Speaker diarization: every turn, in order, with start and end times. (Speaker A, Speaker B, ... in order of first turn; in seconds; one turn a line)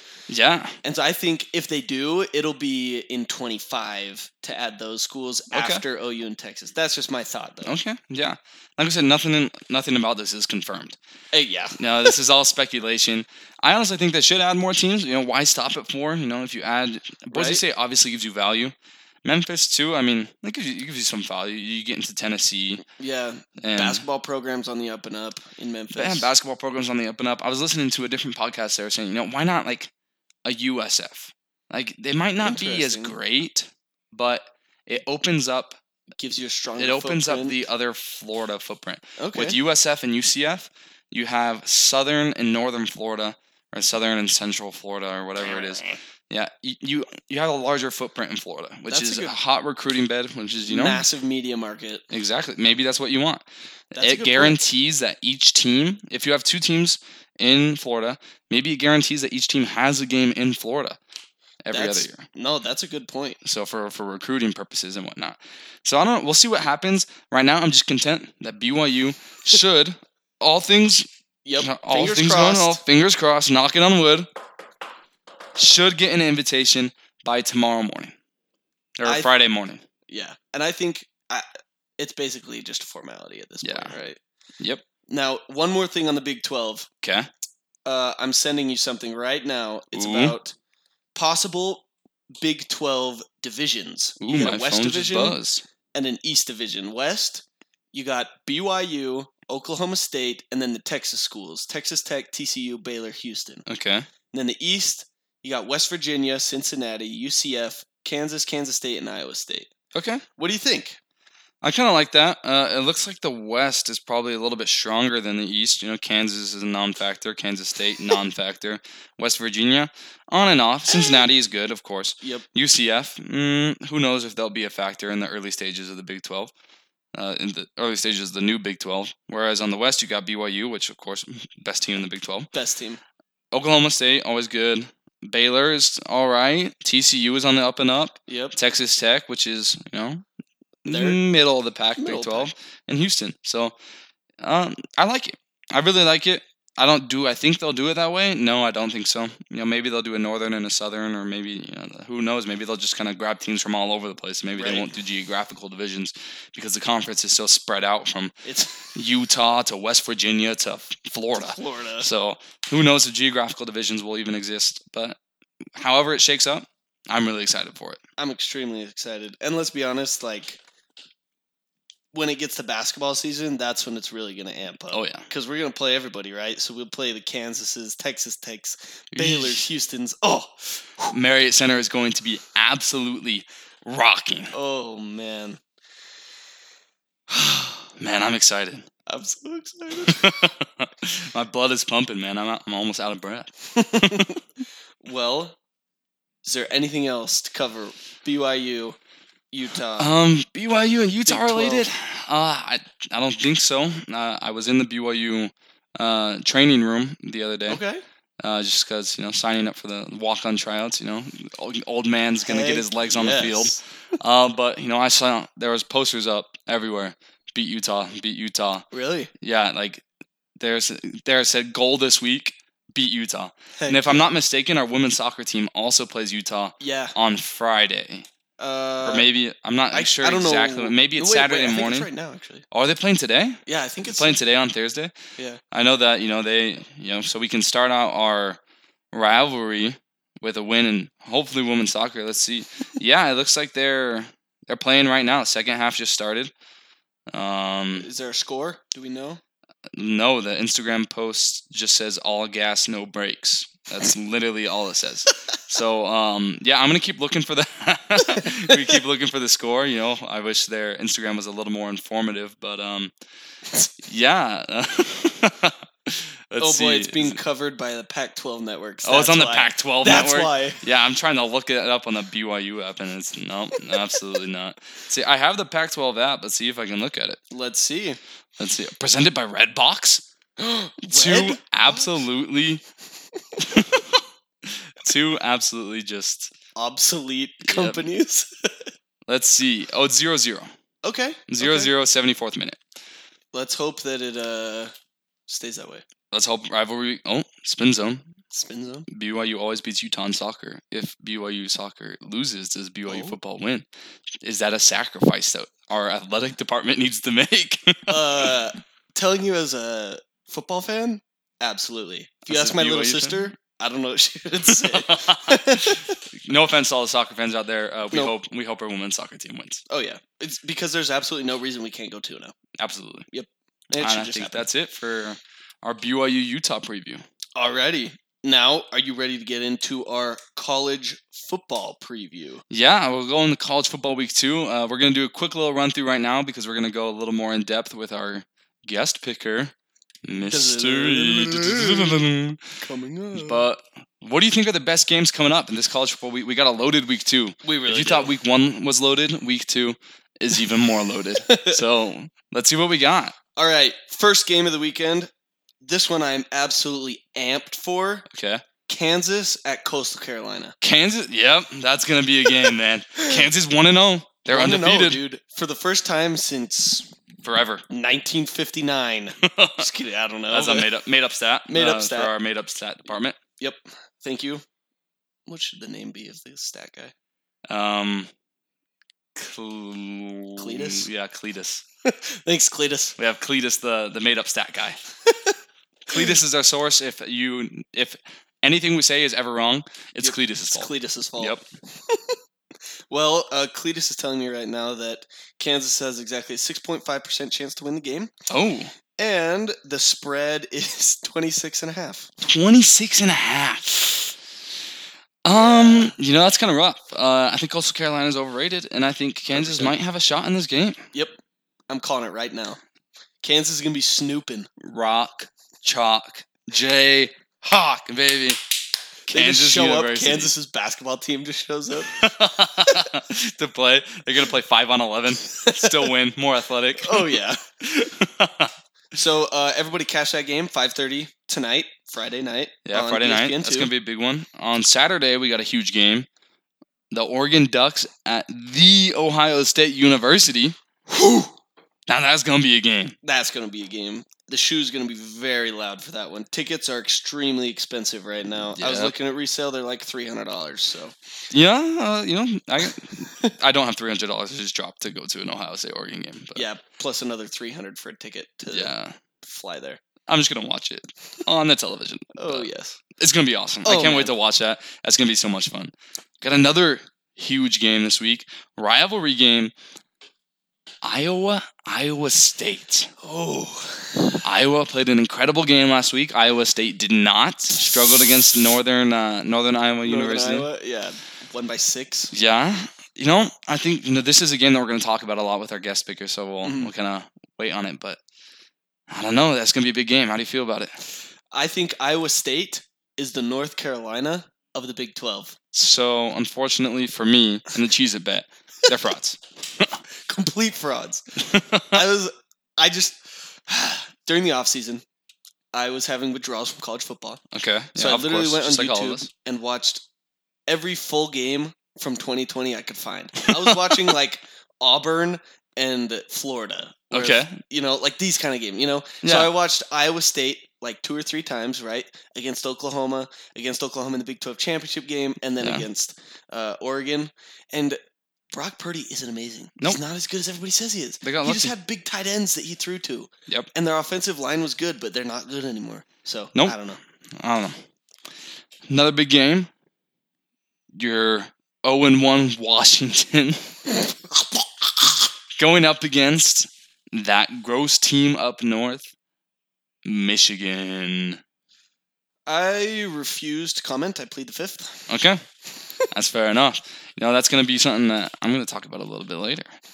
Speaker A: 0.3-0.8
Speaker B: 0.8-7.7
Speaker A: 5.5-5.8
Speaker A: 7.6-11.0
Speaker B: 11.3-12.1
Speaker A: 11.8-22.8
Speaker B: 17.3-17.6
Speaker B: 22.8-26.3
Speaker A: 23.6-24.0
Speaker A: 25.9-29.9
Speaker A: 30.4-35.8
Speaker B: 32.4-33.1
Speaker B: 36.2-37.6
Speaker A: 36.8-51.0
Speaker B: 39.2-39.6
Speaker B: 45.4-46.0
Speaker B: 48.9-49.3
Speaker B: 50.7-52.0
Speaker A: 52.1-61.0
Speaker B: 53.9-54.6
Speaker A: 61.6-62.2
Speaker B: 61.7-63.4
Speaker A: 63.4-71.1
Speaker B: 71.4-72.8
Speaker A: 71.6-74.3
Speaker A: 75.5-78.1
Speaker A: 79.0-79.8
Speaker B: 80.1-81.5
Speaker B: 82.0-84.2
Speaker A: 83.6-84.0
Speaker B: 85.1-86.9
Speaker A: 87.0-87.3
Speaker B: 87.8-90.5
Speaker A: 89.9-90.3
Speaker B: 91.1-95.4
Speaker A: 94.2-95.6
Speaker B: 95.9-103.6
Speaker A: 103.7-104.1
Speaker B: 104.3-109.7
Speaker A: 109.9-110.2
Speaker B: 110.4-111.0
Speaker A: 111.6-126.5
Speaker B: 120.9-121.2
Speaker B: 122.2-122.5
Speaker A: 127.1-132.5
Speaker B: 132.5-133.0
Speaker A: 133.5-140.2
Speaker B: 138.3-138.6
Speaker A: 140.8-143.7
Speaker B: 140.9-141.2
Speaker B: 142.0-142.5
Speaker A: 144.4-158.3
Speaker B: 154.6-154.9
Speaker B: 158.4-158.9
Speaker A: 158.9-165.2
Speaker B: 161.4-162.1
Speaker A: 165.8-168.0
Speaker B: 168.2-170.6
Speaker B: 172.1-181.1
Speaker A: 174.9-175.3
Speaker A: 179.1-179.7
Speaker A: 181.1-184.5
Speaker B: 184.5-185.6
Speaker A: 187.9-188.9
Speaker B: 189.1-190.3
Speaker A: 190.0-194.4
Speaker B: 193.7-194.4
Speaker B: 195.0-195.6
Speaker B: 196.4-199.0
Speaker B: 199.5-200.1
Speaker A: 200.0-207.8
Speaker B: 201.3-201.9
Speaker B: 207.7-208.0
Speaker A: 208.4-218.8
Speaker B: 212.4-213.8
Speaker B: 218.9-219.3
Speaker A: 219.4-220.0
Speaker A: 220.6-228.2
Speaker B: 223.8-224.3
Speaker B: 226.8-227.2
Speaker B: 228.6-229.3
Speaker A: 229.0-232.1
Speaker B: 229.9-232.6
Speaker A: 232.7-235.1
Speaker B: 233.7-234.4
Speaker A: 235.7-238.6
Speaker A: 239.1-246.5
Speaker A: 247.3-248.1
Speaker B: 248.0-249.4
Speaker A: 249.9-263.1
Speaker B: 258.4-258.8
Speaker A: 264.0-267.4
Speaker B: 266.6-270.8
Speaker A: 269.0-277.4
Speaker B: 277.5-278.2
Speaker A: 278.6-280.2
Speaker B: 280.6-282.2
Speaker A: 281.0-282.8
Speaker A: 283.6-286.5
Speaker B: 286.8-288.9
Speaker A: 287.6-288.1
Speaker A: 289.3-290.7
Speaker B: 291.0-291.9
Speaker A: 291.5-292.8
Speaker B: 293.5-294.9
Speaker B: 295.5-296.0
Speaker A: 296.3-298.3
Speaker B: 298.5-299.1
Speaker A: 299.1-303.9
Speaker B: 303.1-303.4
Speaker A: 304.4-308.6
Speaker B: 308.1-316.2
Speaker A: 312.5-313.5
Speaker A: 314.7-319.8
Speaker B: 319.9-322.5
Speaker A: 322.8-323.3
Speaker B: 323.3-324.6
Speaker A: 324.0-327.2
Speaker B: 327.6-332.6
Speaker A: 332.7-339.7
Speaker A: 340.2-342.8
Speaker B: 340.5-342.2
Speaker B: 342.8-343.7
Speaker A: 343.3-353.4
Speaker B: 347.6-348.3
Speaker B: 351.4-351.8
Speaker B: 353.6-355.3
Speaker B: 355.8-358.2
Speaker A: 358.3-358.6
Speaker B: 358.9-360.7
Speaker A: 360.8-365.2
Speaker B: 364.5-367.1
Speaker A: 367.4-367.8
Speaker B: 367.9-370.9
Speaker A: 369.4-369.9
Speaker A: 370.5-373.4
Speaker B: 371.7-372.3
Speaker B: 373.6-374.6
Speaker B: 375.5-377.1
Speaker A: 377.7-378.3
Speaker A: 379.4-381.8
Speaker B: 380.6-381.1
Speaker B: 382.0-383.1
Speaker A: 383.2-385.0
Speaker B: 385.3-385.5
Speaker A: 386.1-391.6
Speaker B: 390.2-392.4
Speaker B: 393.1-398.3
Speaker A: 398.5-398.9
Speaker B: 399.2-402.3
Speaker A: 402.4-404.3
Speaker A: 405.4-411.1
Speaker B: 405.5-406.1
Speaker B: 409.5-409.9
Speaker B: 411.1-412.8
Speaker B: 413.4-414.7
Speaker A: 414.8-418.6
Speaker A: 419.3-420.5
Speaker B: 419.3-422.1
Speaker A: 422.1-428.7
Speaker B: 425.6-426.1
Speaker B: 427.0-427.6
Speaker B: 429.1-433.9
Speaker A: 432.8-436.3
Speaker A: 437.1-440.8
Speaker B: 441.1-441.5
Speaker A: 442.1-443.1
Speaker B: 443.2-451.1
Speaker A: 448.8-449.1
Speaker A: 451.5-456.6
Speaker B: 456.5-458.9
Speaker A: 458.7-459.1
Speaker B: 459.4-460.0
Speaker A: 460.3-469.7
Speaker B: 462.4-463.0
Speaker B: 463.8-464.3
Speaker A: 471.0-473.1
Speaker B: 473.2-474.4
Speaker A: 474.4-480.7
Speaker B: 480.0-482.3
Speaker A: 482.3-488.2
Speaker B: 486.6-486.9
Speaker A: 489.1-491.0
Speaker B: 491.5-495.6
Speaker A: 495.7-499.9
Speaker B: 500.2-501.2
Speaker A: 501.4-502.0
Speaker B: 501.9-505.0
Speaker B: 505.7-507.4
Speaker A: 507.5-509.3
Speaker B: 507.9-510.0
Speaker B: 510.7-528.0
Speaker A: 517.1-517.6
Speaker A: 519.2-519.5
Speaker A: 525.6-525.8
Speaker B: 528.5-537.0
Speaker A: 531.2-531.7
Speaker A: 537.4-537.8
Speaker A: 538.9-539.7
Speaker A: 540.9-544.4
Speaker A: 545.0-549.1
Speaker A: 550.0-551.4
Speaker B: 552.5-555.1
Speaker A: 555.1-555.4
Speaker A: 556.1-559.7